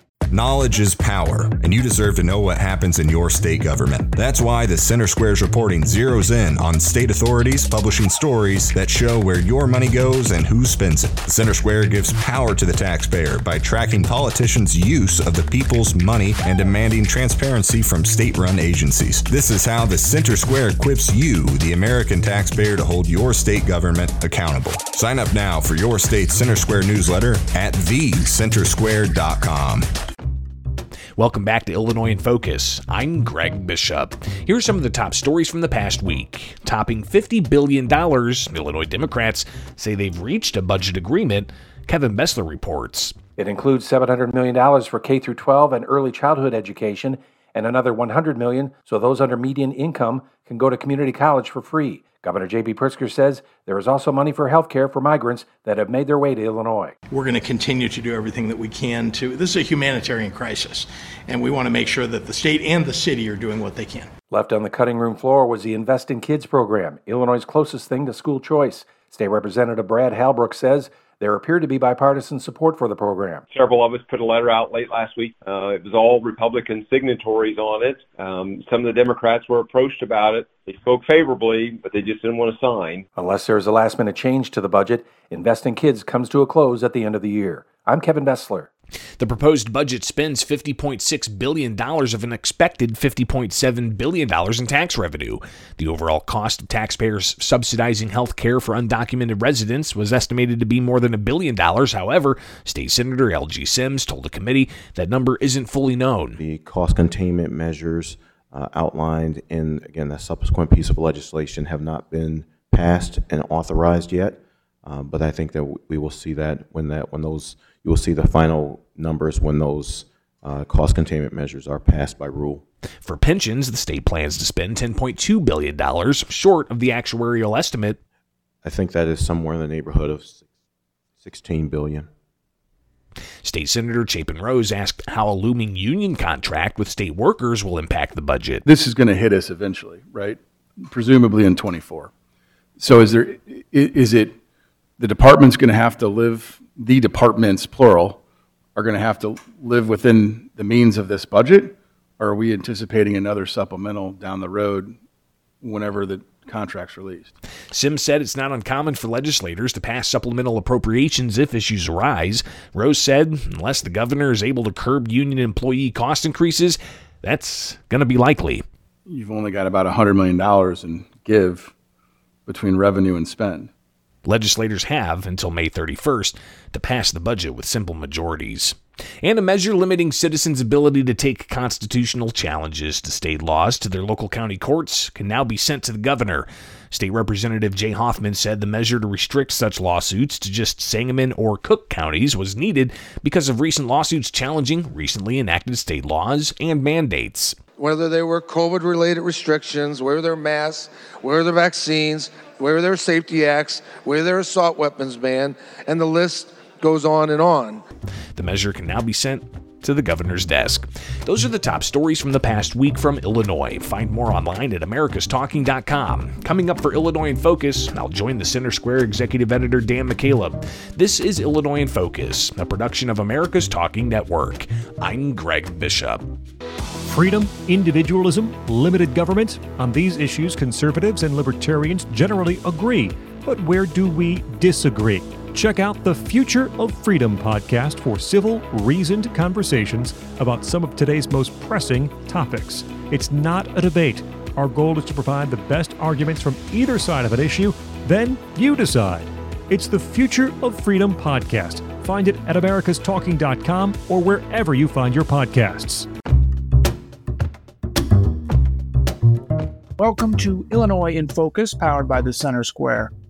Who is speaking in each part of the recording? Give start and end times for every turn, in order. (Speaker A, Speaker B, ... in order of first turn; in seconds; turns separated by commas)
Speaker A: 0.3-29.9, Speaker B: 31.2-43.2, Speaker C: 43.4-57.0, Speaker D: 57.1-64.1, Speaker C: 64.3-73.4, Speaker E: 73.5-83.0, Speaker C: 83.2-88.7, Speaker B: 89.2-106.4, Speaker F: 106.4-122.6, Speaker B: 123.0-128.0, Speaker F: 128.6-130.4, Speaker F: 131.2-132.1, Speaker B: 133.4-138.6, Speaker G: 138.6-142.1, Speaker G: 142.8-144.4, Speaker G: 145.0-148.2, Speaker G: 148.8-154.9, Speaker G: 155.6-157.3, Speaker B: 157.7-168.6, Speaker G: 169.1-171.7, Speaker G: 172.4-173.7, Speaker B: 174.2-197.6, Speaker H: 197.8-207.8, Speaker B: 208.3-226.3, Speaker I: 227.1-256.1, Speaker J: 260.0-263.1